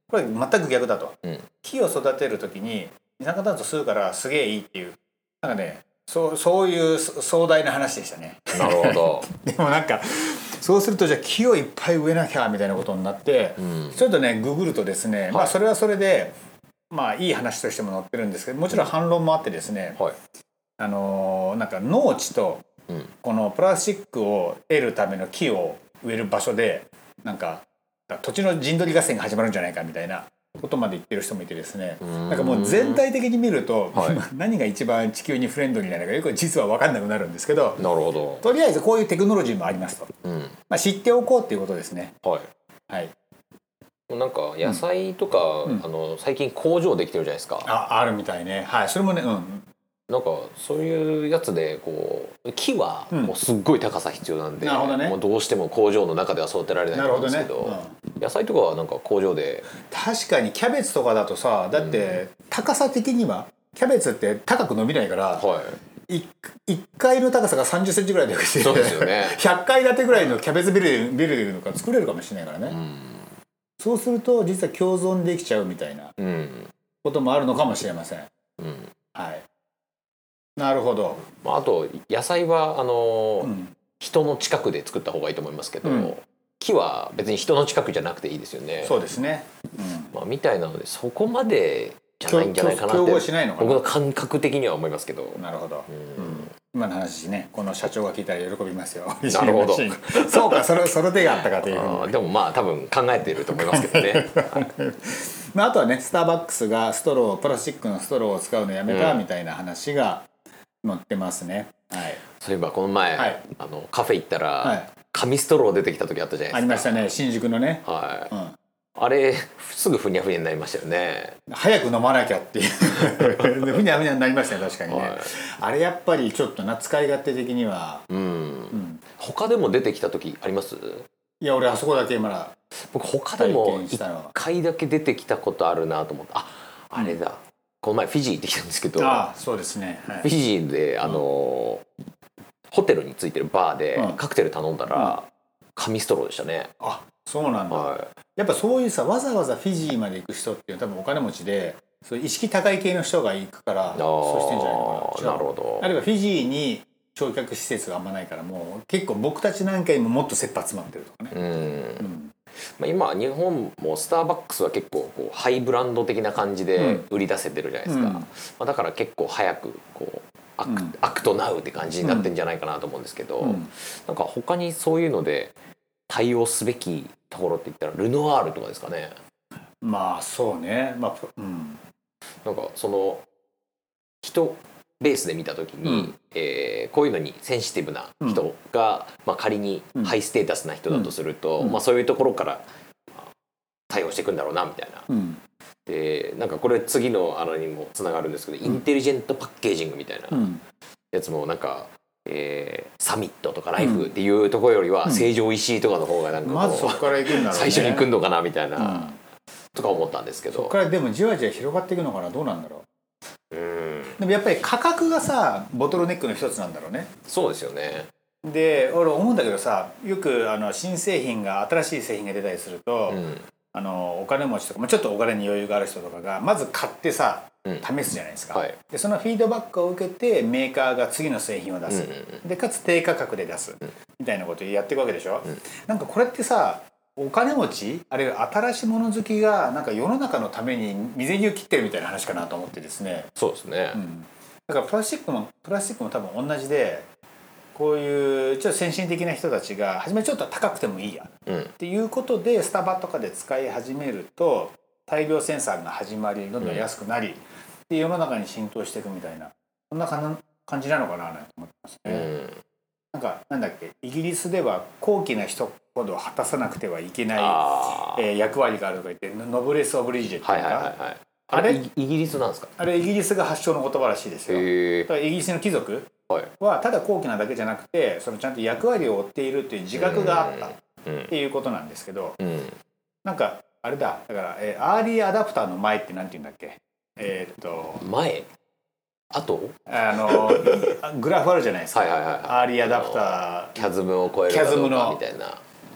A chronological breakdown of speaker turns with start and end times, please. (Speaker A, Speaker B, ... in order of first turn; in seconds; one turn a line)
Speaker A: 0.1-16.3
Speaker B: 8.5-9.3
Speaker B: 13.6-14.0
Speaker A: 16.9-20.0
Speaker A: 20.8-22.6
Speaker A: 23.2-37.8
Speaker B: 32.0-33.0
Speaker B: 33.9-34.2
Speaker B: 37.8-38.4
Speaker A: 38.4-40.1
Speaker B: 40.2-40.6
Speaker A: 40.7-42.1
Speaker B: 42.2-42.5
Speaker A: 42.9-43.1
Speaker B: 44.1-47.7
Speaker A: 47.6-49.6
Speaker B: 50.1-59.7
Speaker A: 54.6-55.2
Speaker A: 56.9-58.0
Speaker A: 59.8-65.5
Speaker B: 61.8-62.2
Speaker B: 65.4-65.8
Speaker A: 66.1-72.8
Speaker B: 68.6-69.4
Speaker B: 72.7-73.3
Speaker A: 73.8-76.1
Speaker B: 76.2-76.7
Speaker A: 77.0-78.3
Speaker B: 78.6-78.9
Speaker A: 79.1-79.5
Speaker A: 80.6-81.2
Speaker B: 81.3-89.0
Speaker A: 83.4-83.7
Speaker A: 85.8-86.1
Speaker A: 88.8-90.1
Speaker B: 90.1-96.5
Speaker A: 92.3-93.8
Speaker A: 95.4-102.1
Speaker B: 99.3-100.6
Speaker B: 101.6-104.7
Speaker A: 103.4-110.3
Speaker B: 108.9-109.2
Speaker A: 110.8-112.2
Speaker B: 112.3-117.1
Speaker A: 113.2-113.4
Speaker A: 114.6-114.9
Speaker A: 116.5-118.5
Speaker B: 117.8-118.3
Speaker B: 119.0-121.4
Speaker A: 121.5-128.1
Speaker B: 123.2-123.7
Speaker B: 124.9-125.3
Speaker B: 128.1-131.1
Speaker A: 128.7-129.0
Speaker A: 131.4-132.5
Speaker B: 132.8-139.2
Speaker A: 133.4-134.3
Speaker A: 139.0-140.3
Speaker B: 140.2-141.8
Speaker B: 142.7-146.7
Speaker A: 146.8-161.4
Speaker B: 147.7-148.1
Speaker B: 153.9-155.9
Speaker B: 161.3-162.1
Speaker A: 162.0-162.3
Speaker B: 162.8-175.5
Speaker A: 166.8-167.0
Speaker A: 167.8-168.3
Speaker A: 170.7-170.9
Speaker A: 172.0-172.3
Speaker A: 173.4-173.7
Speaker B: 176.1-179.1
Speaker A: 179.8-181.8
Speaker B: 182.4-183.2
Speaker B: 184.2-193.3
Speaker A: 185.8-186.1
Speaker A: 190.9-191.8
Speaker B: 193.9-195.0
Speaker A: 195.1-195.4
Speaker B: 195.8-200.4
Speaker A: 200.3-200.6
Speaker B: 201.1-209.1
Speaker A: 203.8-204.1
Speaker A: 206.4-208.1
Speaker A: 208.8-209.2
Speaker B: 209.7-210.7
Speaker A: 210.5-212.8
Speaker B: 213.5-214.2
Speaker A: 214.2-217.1
Speaker B: 217.3-218.1
Speaker A: 218.4-243.3
Speaker B: 223.1-223.4
Speaker B: 231.9-232.4
Speaker B: 243.3-244.0
Speaker A: 243.9-247.1
Speaker A: 247.7-262.3
Speaker B: 251.5-251.7
Speaker B: 262.1-262.6
Speaker A: 263.1-270.9
Speaker B: 267.3-268.2
Speaker B: 270.4-272.7
Speaker A: 271.5-271.8
Speaker A: 272.8-280.7
Speaker B: 274.5-275.1
Speaker B: 279.9-281.3
Speaker A: 281.3-282.4
Speaker B: 282.4-282.8
Speaker A: 283.2-288.1
Speaker B: 288.0-288.5
Speaker B: 289.3-290.9
Speaker A: 289.9-293.9
Speaker B: 291.9-295.6
Speaker A: 294.5-295.2